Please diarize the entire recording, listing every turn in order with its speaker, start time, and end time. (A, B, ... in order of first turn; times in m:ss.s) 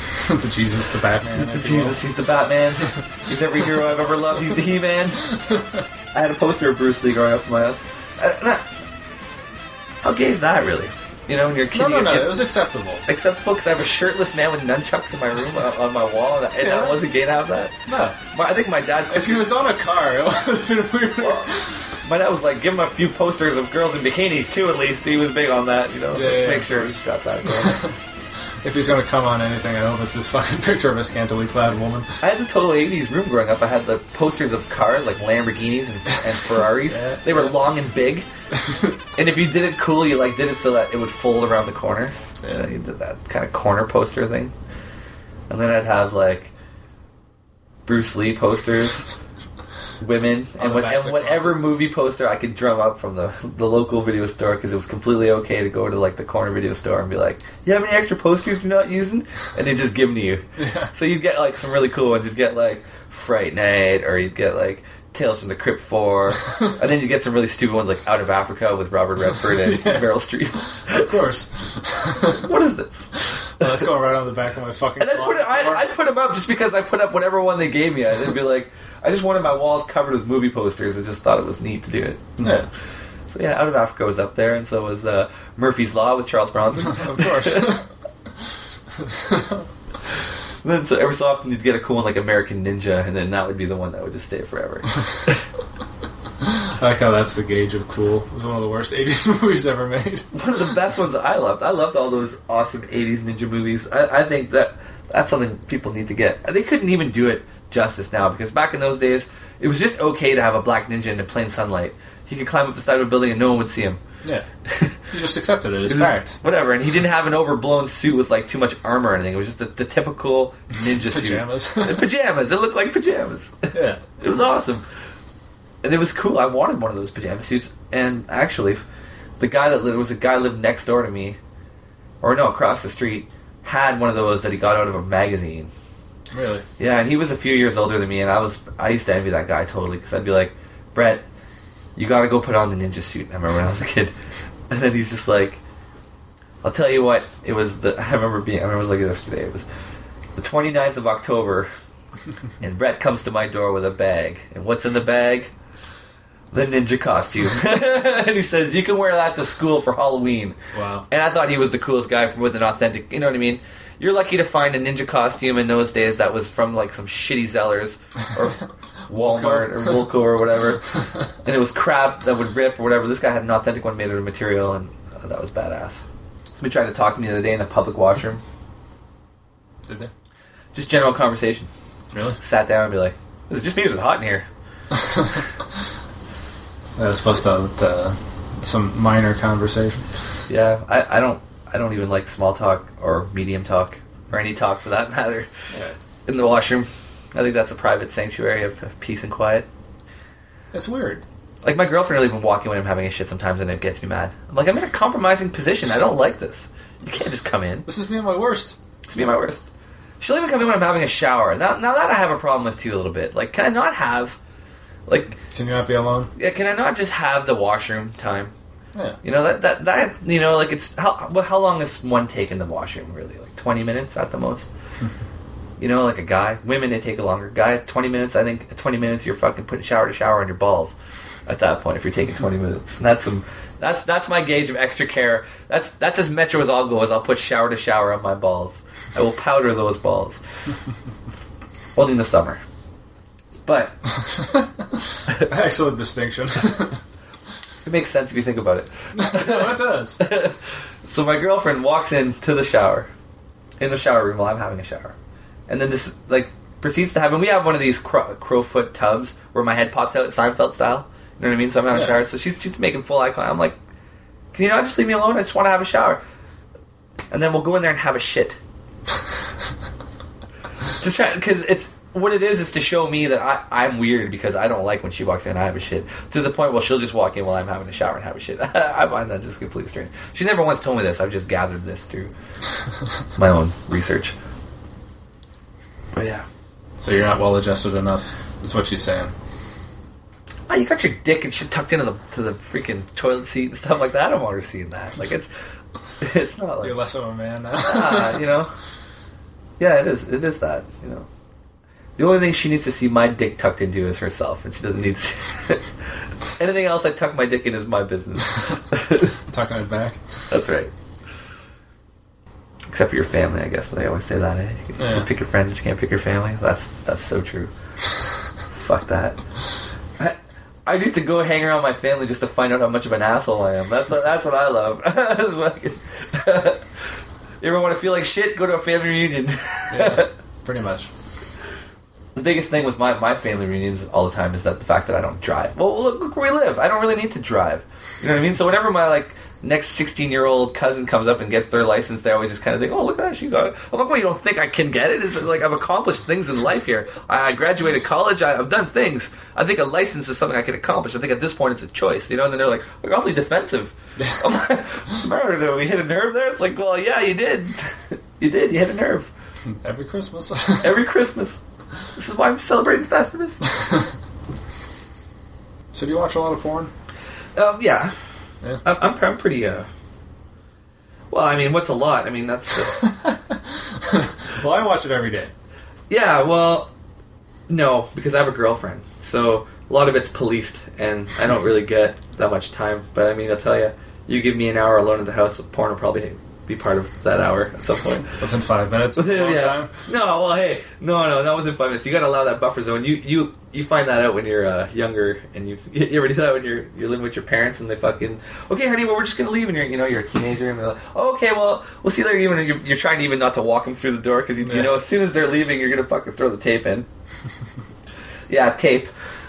0:00.1-0:02.0 A
0:01.4-0:05.4 B
0:06.1-0:08.6 B
0:10.0-0:12.4 B
0:11.7-0:13.0 A
0:13.1-0:17.7 B
0:16.6-0:17.0 A
0:17.9-0:18.2 A
0:18.3-0:19.5 B
0:19.1-0:21.9 A
0:21.2-0:27.8 B
0:26.1-0:27.9 A
0:28.6-0:32.1 A
0:32.2-0:38.3 B
0:36.8-0:37.6 A
0:38.6-0:38.9 A
0:39.2-0:44.5 B
0:42.4-0:42.7 A
0:45.5-0:46.5 B
0:47.9-0:49.1 B
0:50.0-1:11.1 B
0:50.6-0:51.7 A
1:00.6-1:00.9 A
1:09.4-1:10.2 A
1:10.9-1:12.5 A
1:12.2-1:13.1 B
1:13.6-1:15.9 A
1:15.0-1:22.4 B
1:22.4-1:22.7 A
1:23.3-1:27.8 B
1:26.8-1:27.9 A
1:29.0-1:29.7 A
1:30.6-1:35.4 B
1:36.4-1:40.3 A
1:40.3-1:54.0 B
1:54.7-1:55.0 B
1:55.1-1:56.4 A
1:55.9-2:04.8 B
2:00.9-2:02.1 A
2:03.7-2:04.0 A
2:05.8-2:08.8 B
2:09.4-2:11.4 B
2:12.2-2:15.7 B
2:16.3-2:16.6 A
2:16.8-2:21.2 B
2:22.0-2:24.1 B
2:24.7-2:25.6 B
2:26.6-2:29.7 B
2:30.4-2:31.7 B
2:32.6-2:35.5 B
2:36.5-2:40.6 B
2:40.7-2:41.1 A
2:41.1-2:50.9 B
2:49.1-2:50.1 A
2:51.4-2:56.0 B
2:56.6-2:58.4 B
2:59.9-3:00.1 A
3:00.7-3:01.7 B
3:02.1-3:02.4 A
3:02.3-3:04.5 B
3:04.9-3:05.3 A
3:07.0-3:10.1 A
3:10.5-3:15.5 B
3:15.7-3:16.0 A
3:16.3-3:19.7 B
3:20.7-3:21.2 A
3:21.6-3:27.9 B
3:27.9-3:28.8 A
3:29.1-3:29.7 B
3:30.2-3:34.4 B
3:35.1-3:35.4 B
3:35.4-3:36.3 A
3:36.4-3:38.5 B
3:39.2-3:44.7 B
3:45.8-3:51.0 B
3:51.5-4:00.4 B
4:02.0-4:02.6 B
4:03.7-4:04.0 B
4:04.3-4:07.0 A
4:07.8-4:13.1 B
4:09.1-4:10.2 A
4:13.8-4:15.2 B
4:15.7-4:23.8 B
4:21.9-4:22.2 A
4:24.5-4:26.2 B
4:27.3-4:28.6 B
4:31.0-4:42.3 B
4:43.4-4:44.4 B
4:46.2-4:46.5 B
4:47.0-4:49.3 A
4:50.7-4:55.5 B
4:56.2-4:57.0 B
4:56.8-4:58.5 A
4:57.8-4:58.7 B
4:59.8-5:01.3 B
5:02.2-5:05.9 B
5:06.6-5:09.3 B
5:09.5-5:10.2 A
5:10.5-5:10.9 B
5:12.9-5:17.7 B
5:15.0-5:15.3 A
5:18.7-5:19.4 B
5:20.2-5:26.8 B
5:27.6-5:30.3 B
5:29.9-5:31.1 A
5:32.4-5:59.3 B
5:54.2-5:54.4 A
5:59.7-6:01.0 A
6:00.8-6:01.6 B
6:02.2-6:03.7 B
6:05.9-6:06.9 A
6:07.6-6:08.1 B
6:08.8-6:09.9 B
6:11.3-6:13.1 B
6:13.0-6:15.5 A
6:16.1-6:16.9 B
6:17.7-6:28.3 B
6:28.4-6:29.9 A
6:29.2-6:47.1 B
6:44.6-6:45.0 A
6:48.5-6:49.1 B